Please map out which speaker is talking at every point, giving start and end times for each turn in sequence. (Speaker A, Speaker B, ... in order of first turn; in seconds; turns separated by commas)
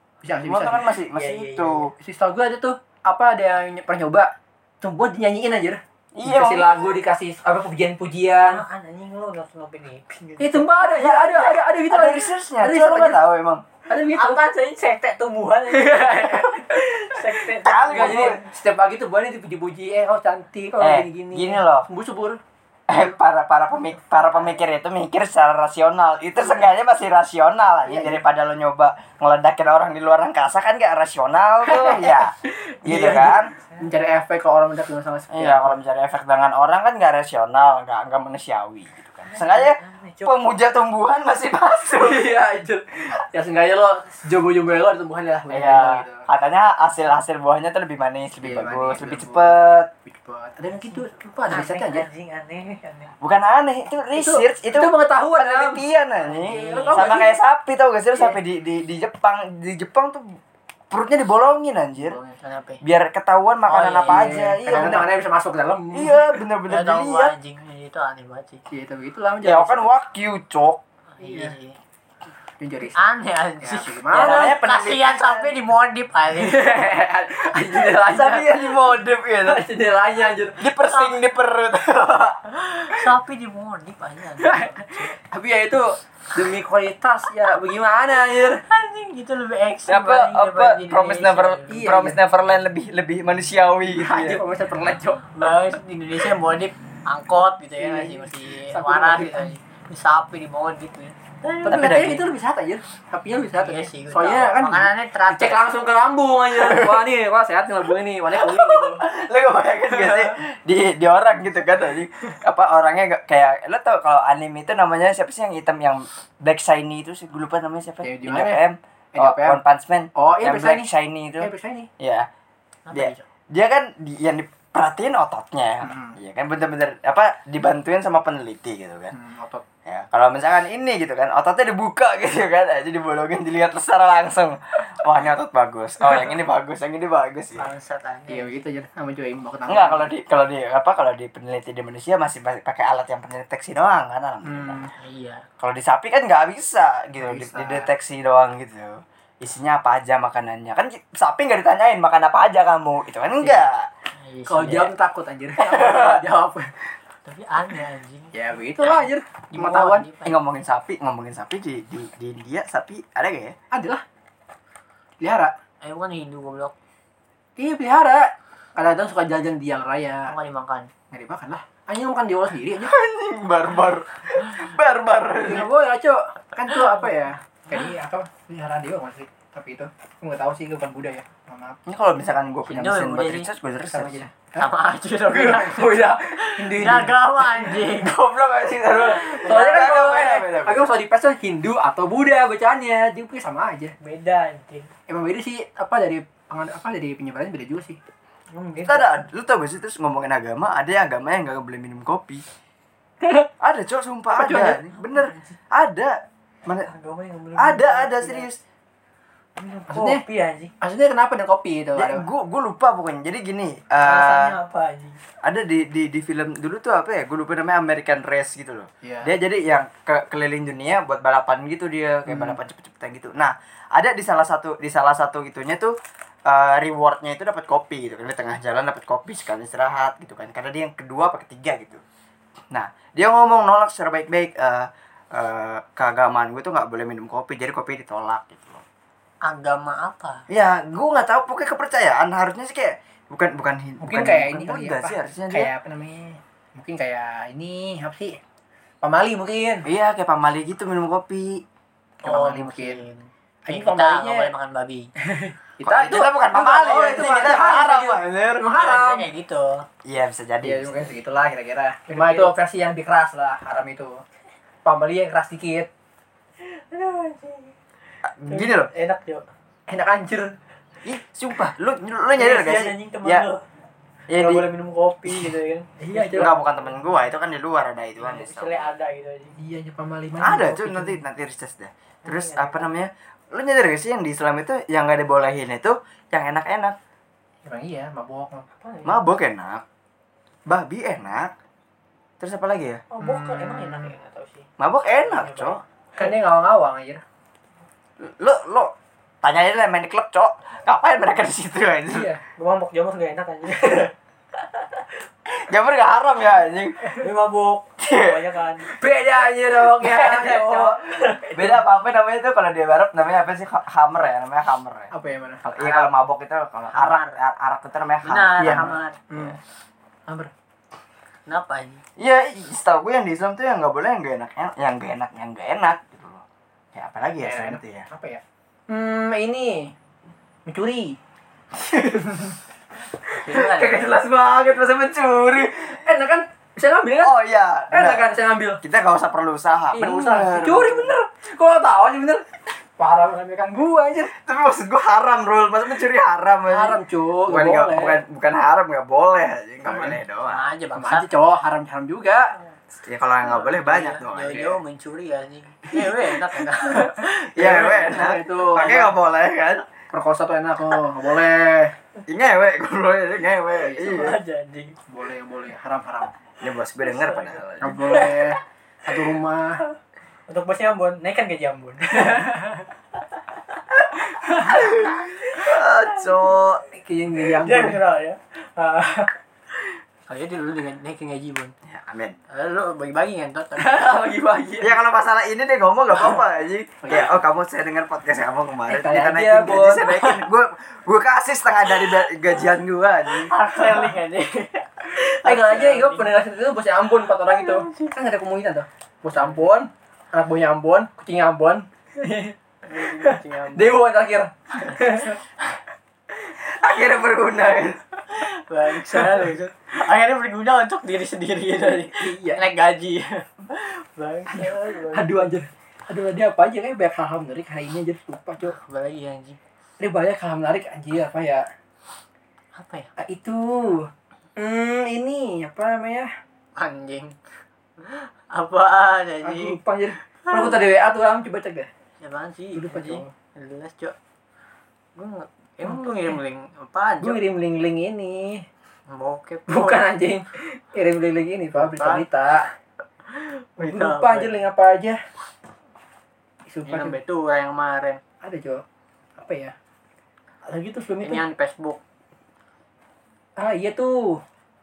Speaker A: 0.2-0.9, Speaker B: 0.4-1.9, Speaker C: 1.1-1.9, Speaker A: 2.0-8.6, Speaker B: 6.1-6.9, Speaker C: 8.4-10.7, Speaker A: 10.4-13.2, Speaker B: 10.8-13.6, Speaker A: 13.9-14.4, Speaker C: 14.1-18.5, Speaker A: 15.7-17.3, Speaker B: 17.6-18.4, Speaker A: 17.9-22.4, Speaker B: 20.8-21.9, Speaker B: 22.9-33.5, Speaker A: 27.9-28.2, Speaker A: 31.6-35.8, Speaker B: 35.3-42.3, Speaker C: 39.3-40.4, Speaker A: 41.9-46.2, Speaker B: 45.5-49.9, Speaker A: 48.4-49.5, Speaker A: 50.0-52.0, Speaker C: 50.9-53.1, Speaker B: 53.2-60.2, Speaker A: 54.1-55.8, Speaker C: 56.2-57.2, Speaker A: 56.4-57.4, Speaker B: 60.9-62.2, Speaker C: 62.3-62.8, Speaker B: 62.8-65.1, Speaker C: 63.7-65.0, Speaker A: 64.0-66.4, Speaker B: 65.9-67.3, Speaker C: 66.7-68.6, Speaker A: 68.7-69.9, Speaker B: 69.4-70.8, Speaker C: 71.2-71.8, Speaker A: 71.2-71.5, Speaker A: 72.6-73.0, Speaker C: 72.9-76.7, Speaker A: 73.6-74.5, Speaker B: 74.1-75.5, Speaker A: 76.4-78.9, Speaker B: 78.0-79.6, Speaker A: 79.5-80.6, Speaker B: 80.6-82.4, Speaker C: 80.8-81.2, Speaker C: 82.6-85.2, Speaker A: 84.4-88.6, Speaker C: 88.6-91.7, Speaker B: 89.9-94.4, Speaker A: 91.7-92.2, Speaker A: 94.0-95.4, Speaker C: 95.3-102.1, Speaker A: 97.8-99.5, Speaker A: 101.6-109.0, Speaker B: 101.7-102.2, Speaker C: 103.6-105.7, Speaker B: 106.5-107.0, Speaker B: 108.3-122.3, Speaker A: 118.0-118.6, Speaker A: 119.1-119.6, Speaker A: 120.2-120.8, Speaker A: 121.4-121.9, Speaker C: 122.9-123.2, Speaker B: 122.9-129.1, Speaker A: 125.8-126.1, Speaker A: 129.1-129.6, Speaker B: 129.8-137.7, Speaker C: 137.6-138.5, Speaker A: 138.3-140.1, Speaker B: 139.7-144.9, Speaker A: 144.4-144.9, Speaker C: 145.0-145.4, Speaker B: 145.6-153.9, Speaker A: 147.2-147.9, Speaker C: 154.2-154.9, Speaker A: 154.5-156.7, Speaker B: 155.6-156.2, Speaker C: 157.2-160.4, Speaker A: 158.3-160.1, Speaker B: 160.2-163.6, Speaker A: 163.7-164.0, Speaker A: 165.2-165.5, Speaker C: 165.8-166.7, Speaker A: 167.6-170.3, Speaker C: 170.3-170.9, Speaker A: 171.1-172.9, Speaker B: 172.8-175.7, Speaker A: 175.4-181.8, Speaker C: 176.7-177.1, Speaker B: 181.8-184.3, Speaker C: 182.7-183.5, Speaker A: 183.9-184.7, Speaker C: 184.6-188.2, Speaker A: 185.3-187.7, Speaker B: 187.9-190.9, Speaker C: 188.9-190.4, Speaker A: 189.2-193.9, Speaker C: 194.0-194.9, Speaker A: 195.1-198.0, Speaker C: 198.5-199.1, Speaker B: 198.8-202.4, Speaker A: 203.2-203.5, Speaker B: 203.6-206.9, Speaker A: 204.3-204.8, Speaker C: 205.1-205.5, Speaker C: 206.8-208.5, Speaker B: 207.6-208.6, Speaker C: 209.6-210.7, Speaker A: 209.9-210.2, Speaker A: 210.8-212.3, Speaker B: 211.9-214.6, Speaker C: 214.0-215.2, Speaker B: 215.4-225.9, Speaker A: 219.0-219.3, Speaker A: 222.3-222.6, Speaker B: 226.5-232.0, Speaker B: 232.7-238.8, Speaker C: 239.4-240.4, Speaker B: 240.5-245.7, Speaker A: 244.0-248.4, Speaker A: 249.0-249.8, Speaker B: 249.8-251.6, Speaker A: 252.2-253.0, Speaker C: 252.2-255.1, Speaker A: 253.7-254.5, Speaker A: 255.2-259.3, Speaker B: 255.8-258.7, Speaker C: 258.8-259.8, Speaker B: 260.0-260.9, Speaker A: 260.6-264.2, Speaker C: 262.1-262.5, Speaker A: 264.8-265.9, Speaker C: 266.6-267.7, Speaker B: 268.3-268.9, Speaker C: 268.5-269.4, Speaker A: 269.9-270.5, Speaker B: 271.0-273.4, Speaker C: 272.4-273.6, Speaker B: 274.3-274.6, Speaker C: 274.4-276.6, Speaker A: 276.0-276.6, Speaker B: 276.4-278.9, Speaker C: 278.2-279.6, Speaker A: 279.6-281.2, Speaker B: 280.4-286.9, Speaker C: 282.2-282.9, Speaker A: 287.6-288.6, Speaker C: 288.8-289.3, Speaker B: 289.0-289.8, Speaker B: 290.7-291.5, Speaker B: 292.4-293.0, Speaker C: 293.1-294.7, Speaker A: 293.2-294.1, Speaker B: 294.8-295.8, Speaker C: 295.2-296.3, Speaker A: 296.2-297.2, Speaker B: 298.2-302.3, Speaker A: 302.1-302.4, Speaker C: 302.6-304.1, Speaker B: 305.5-307.2, Speaker C: 307.0-308.9, Speaker B: 308.0-308.4, Speaker A: 308.8-311.6, Speaker B: 310.0-315.1, Speaker C: 310.1-311.5, Speaker A: 315.1-315.6, Speaker B: 315.6-319.5, Speaker C: 316.9-317.4, Speaker C: 318.2-319.2, Speaker A: 318.6-319.6, Speaker C: 321.5-322.0, Speaker B: 322.2-328.1, Speaker A: 327.4-329.9, Speaker A: 330.6-331.2, Speaker A: 331.8-332.6, Speaker C: 333.3-334.1, Speaker B: 333.5-336.0, Speaker A: 336.0-337.3, Speaker B: 337.2-338.3, Speaker A: 337.9-338.8, Speaker B: 338.8-341.1, Speaker A: 339.9-342.4, Speaker A: 343.0-344.3, Speaker B: 344.3-350.6, Speaker A: 346.7-348.2, Speaker C: 349.9-351.3, Speaker A: 350.9-352.5, Speaker B: 353.1-354.7, Speaker C: 353.5-357.8, Speaker A: 355.9-359.1, Speaker B: 357.6-359.9, Speaker A: 360.1-361.9, Speaker B: 362.3-364.4, Speaker C: 363.9-364.9, Speaker A: 365.1-366.3, Speaker B: 366.6-368.3, Speaker C: 367.1-368.5, Speaker A: 367.8-369.8, Speaker C: 370.5-372.5, Speaker A: 372.2-372.8, Speaker A: 374.4-374.8, Speaker B: 374.6-376.8, Speaker A: 376.9-378.0, Speaker C: 377.4-379.3, Speaker C: 380.3-381.7, Speaker B: 381.9-382.3, Speaker C: 382.5-384.3, Speaker A: 383.8-384.9, Speaker B: 384.8-393.5, Speaker A: 387.0-387.3, Speaker A: 388.9-390.1, Speaker C: 390.1-390.4, Speaker C: 393.4-396.3, Speaker A: 395.2-405.4, Speaker C: 397.5-398.1, Speaker C: 399.3-399.6, Speaker C: 402.8-404.0, Speaker C: 404.8-405.2, Speaker B: 406.6-408.0, Speaker C: 408.3-415.4, Speaker A: 412.2-412.6, Speaker A: 414.5-418.8, Speaker C: 418.7-419.6, Speaker A: 420.0-421.6, Speaker C: 422.8-423.1, Speaker A: 423.2-426.3, Speaker C: 426.8-427.4, Speaker C: 428.0-429.8, Speaker A: 429.4-431.9, Speaker C: 430.4-430.8, Speaker C: 432.2-434.1, Speaker A: 432.7-433.3, Speaker C: 435.1-437.4, Speaker A: 435.8-436.4, Speaker A: 437.2-438.6, Speaker C: 439.1-440.1, Speaker A: 439.7-442.7, Speaker C: 441.8-442.2, Speaker C: 443.3-444.6, Speaker A: 443.8-445.2, Speaker A: 446.7-447.2, Speaker C: 446.9-448.2, Speaker A: 448.4-448.8, Speaker A: 449.4-449.7, Speaker A: 450.6-451.4, Speaker C: 451.2-452.0, Speaker A: 453.6-454.4